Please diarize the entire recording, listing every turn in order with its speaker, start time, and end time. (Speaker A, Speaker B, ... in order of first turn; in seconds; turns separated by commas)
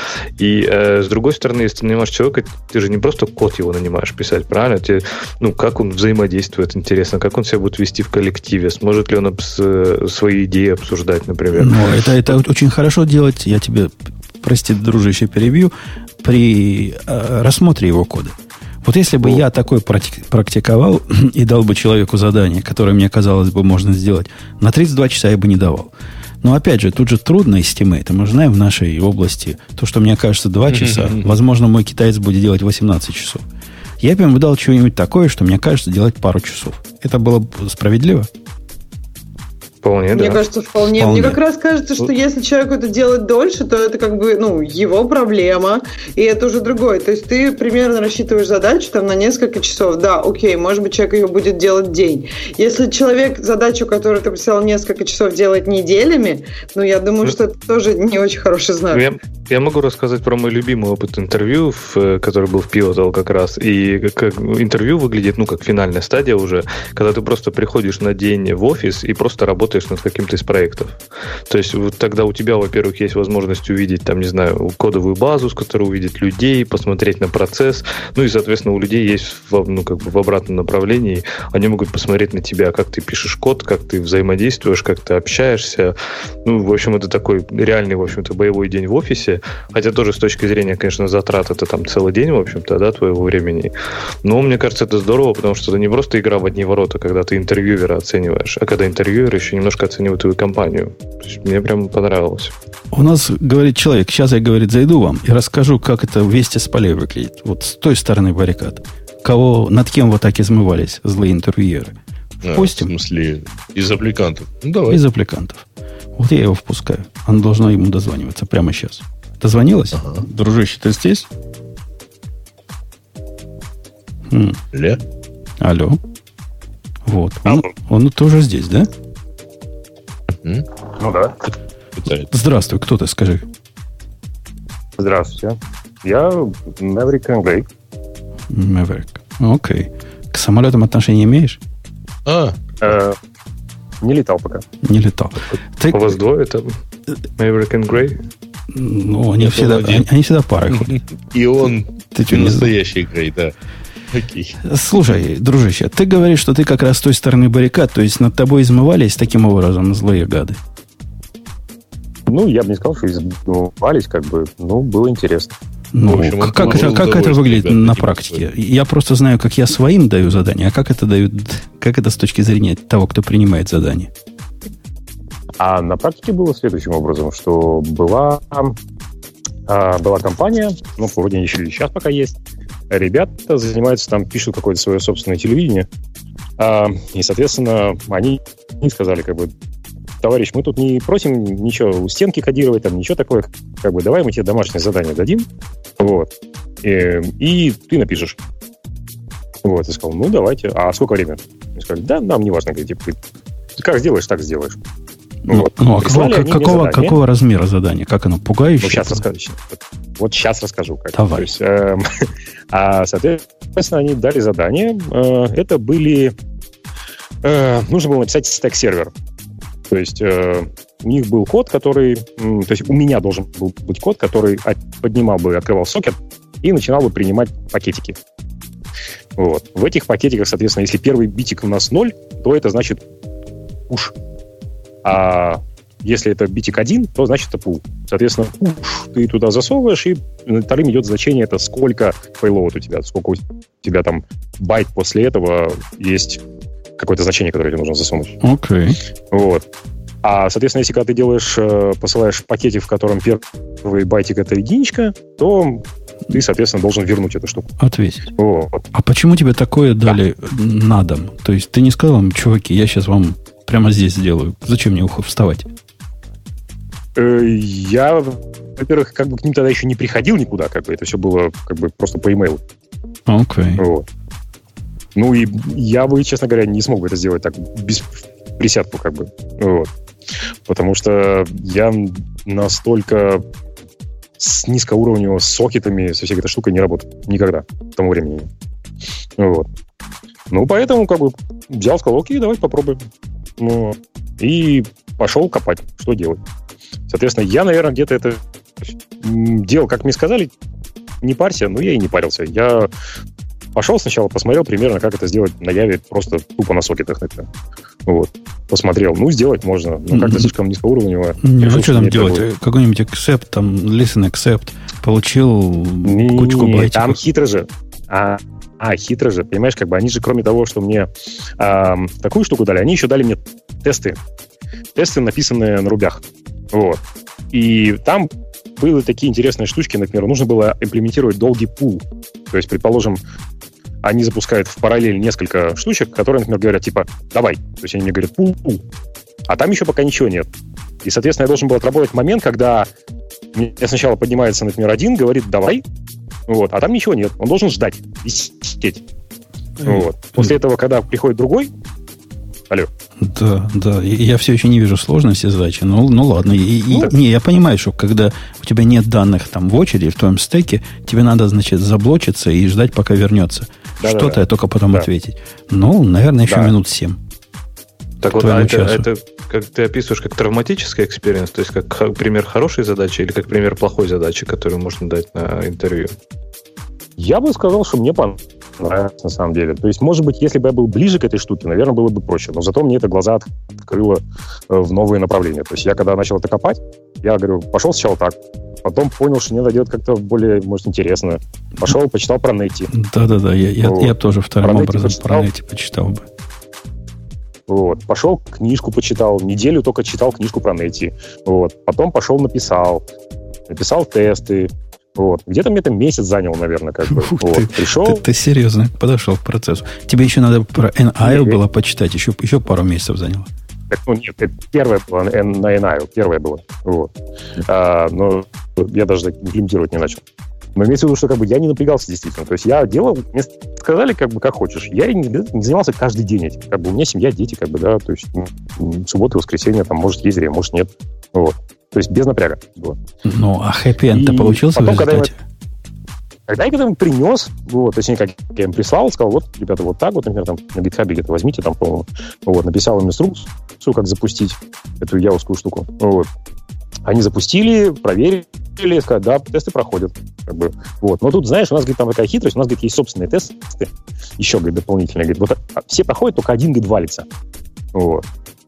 Speaker A: 0.4-12.2, Speaker B: 11.5-33.4, Speaker C: 30.7-31.4, Speaker B: 34.0-38.3, Speaker A: 39.8-40.4, Speaker D: 40.1-59.0, Speaker B: 40.9-41.4, Speaker A: 58.9-93.7, Speaker A: 94.2-102.5, Speaker B: 102.9-111.9, Speaker C: 112.4-115.0, Speaker B: 112.5-112.9, Speaker B: 114.9-121.3, Speaker C: 119.9-120.2, Speaker B: 124.3-124.6, Speaker C: 124.7-125.0, Speaker B: 125.6-126.0, Speaker B: 127.0-128.9, Speaker C: 130.3-130.7, Speaker E: 131.0-131.5, Speaker C: 132.0-132.3, Speaker B: 132.3-133.5, Speaker E: 135.0-137.7, Speaker B: 138.5-141.6, Speaker C: 142.2-142.8, Speaker E: 142.8-143.2, Speaker E: 144.0-144.6, Speaker B: 144.8-146.1, Speaker A: 145.9-146.8, Speaker A: 147.4-148.2, Speaker B: 148.7-150.9, Speaker C: 149.4-150.1, Speaker C: 150.7-153.5, Speaker B: 152.1-152.7, Speaker C: 154.1-154.6, Speaker B: 154.6-160.6, Speaker E: 162.3-165.5, Speaker B: 165.9-174.1, Speaker C: 166.1-168.4, Speaker E: 175.6-178.8, Speaker E: 179.7-182.3, Speaker E: 182.9-185.9, Speaker E: 186.6-189.5, Speaker E: 190.2-198.4, Speaker E: 199.6-203.2, Speaker E: 203.8-204.8, Speaker B: 205.5-209.2, Speaker E: 205.5-207.2, Speaker E: 208.8-216.3, Speaker B: 211.1-211.5, Speaker E: 217.4-219.1, Speaker E: 219.9-228.2, Speaker E: 229.4-233.0, Speaker E: 233.9-234.1, Speaker E: 235.0-246.4, Speaker E: 247.0-248.4, Speaker B: 248.4-249.0, Speaker E: 249.3-249.7, Speaker E: 250.2-257.7, Speaker B: 257.8-258.3, Speaker E: 258.4-258.8, Speaker B: 258.9-265.7, Speaker E: 267.1-272.6, Speaker B: 273.3-273.8, Speaker E: 273.8-274.0, Speaker E: 275.1-279.9, Speaker E: 280.6-283.4, Speaker E: 284.4-288.5, Speaker E: 289.4-289.7, Speaker E: 290.5-293.1, Speaker E: 293.6-296.4, Speaker E: 297.1-300.5, Speaker E: 301.2-302.9, Speaker E: 303.7-307.5, Speaker E: 308.1-312.4, Speaker B: 310.1-310.5, Speaker B: 311.4-317.2, Speaker E: 316.0-324.2, Speaker E: 324.9-327.0, Speaker E: 327.5-333.2, Speaker E: 334.0-338.8, Speaker E: 339.5-340.5, Speaker E: 341.0-342.9, Speaker E: 343.5-345.8, Speaker E: 346.5-349.0, Speaker E: 349.8-351.7, Speaker B: 349.8-350.5, Speaker B: 353.2-367.2, Speaker E: 364.0-365.1, Speaker E: 366.5-366.7, Speaker A: 368.2-376.1, Speaker B: 368.3-369.1, Speaker E: 377.2-392.9, Speaker B: 392.9-396.2, Speaker E: 393.8-395.5, Speaker E: 397.7-403.0, Speaker E: 403.7-408.2, Speaker B: 407.1-413.5, Speaker E: 411.2-411.6, Speaker E: 413.9-417.1, Speaker E: 417.6-420.2, Speaker E: 420.8-433.0, Speaker B: 433.2-435.4, Speaker E: 434.1-435.3, Speaker E: 436.5-446.3, Speaker E: 447.1-457.3, Speaker E: 457.9-458.2